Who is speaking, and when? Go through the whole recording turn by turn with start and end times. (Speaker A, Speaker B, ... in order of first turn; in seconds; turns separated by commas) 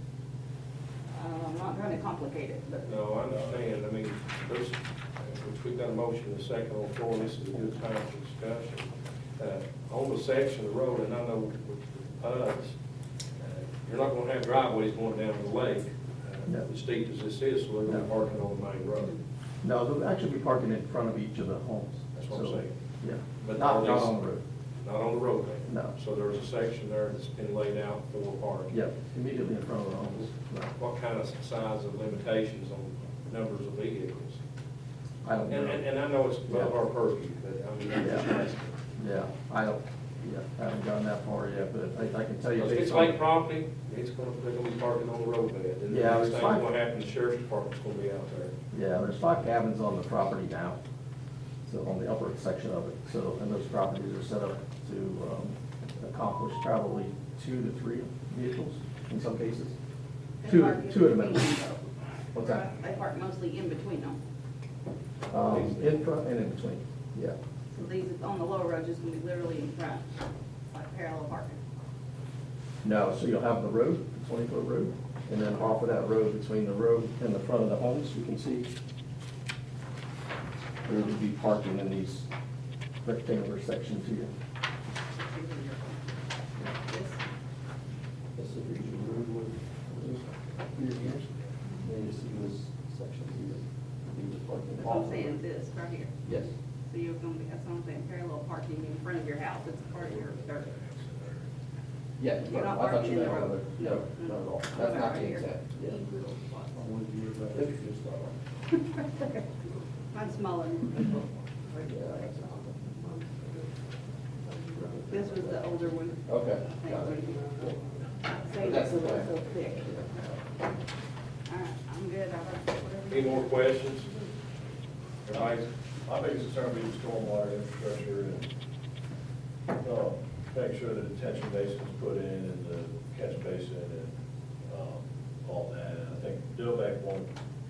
Speaker A: 1.1-2.9, Speaker B: 2.9-12.8, Speaker B: 13.4-19.2, Speaker C: 19.6-24.4, Speaker B: 22.1-22.7, Speaker B: 23.4-24.1, Speaker B: 24.8-28.8, Speaker C: 25.7-25.9, Speaker C: 28.7-30.7, Speaker B: 30.8-34.4, Speaker C: 35.2-35.8, Speaker B: 35.5-38.8, Speaker C: 36.5-36.7, Speaker C: 38.0-38.2, Speaker C: 39.0-43.2, Speaker B: 42.6-48.5, Speaker C: 45.9-46.7, Speaker C: 48.7-50.8, Speaker C: 51.6-59.7, Speaker A: 60.4-64.2, Speaker C: 60.4-61.5, Speaker C: 62.3-62.6, Speaker C: 65.3-67.4, Speaker A: 67.7-70.1, Speaker A: 70.7-71.6, Speaker C: 72.8-78.7, Speaker C: 80.8-82.3, Speaker C: 83.0-84.3, Speaker A: 85.1-87.2, Speaker C: 88.3-95.3, Speaker A: 94.8-96.1, Speaker C: 96.2-96.5, Speaker A: 96.8-100.8, Speaker C: 102.2-106.0, Speaker A: 102.4-106.6, Speaker C: 106.7-108.3, Speaker A: 108.9-109.4, Speaker A: 110.1-113.0, Speaker C: 111.9-112.8, Speaker C: 114.6-115.4, Speaker A: 115.1-117.6, Speaker C: 116.2-117.8, Speaker A: 118.2-120.1, Speaker C: 118.6-120.3, Speaker A: 121.5-124.1, Speaker B: 123.1-124.1, Speaker B: 125.2-125.7, Speaker D: 125.3-128.4, Speaker D: 129.8-134.1, Speaker D: 134.7-137.3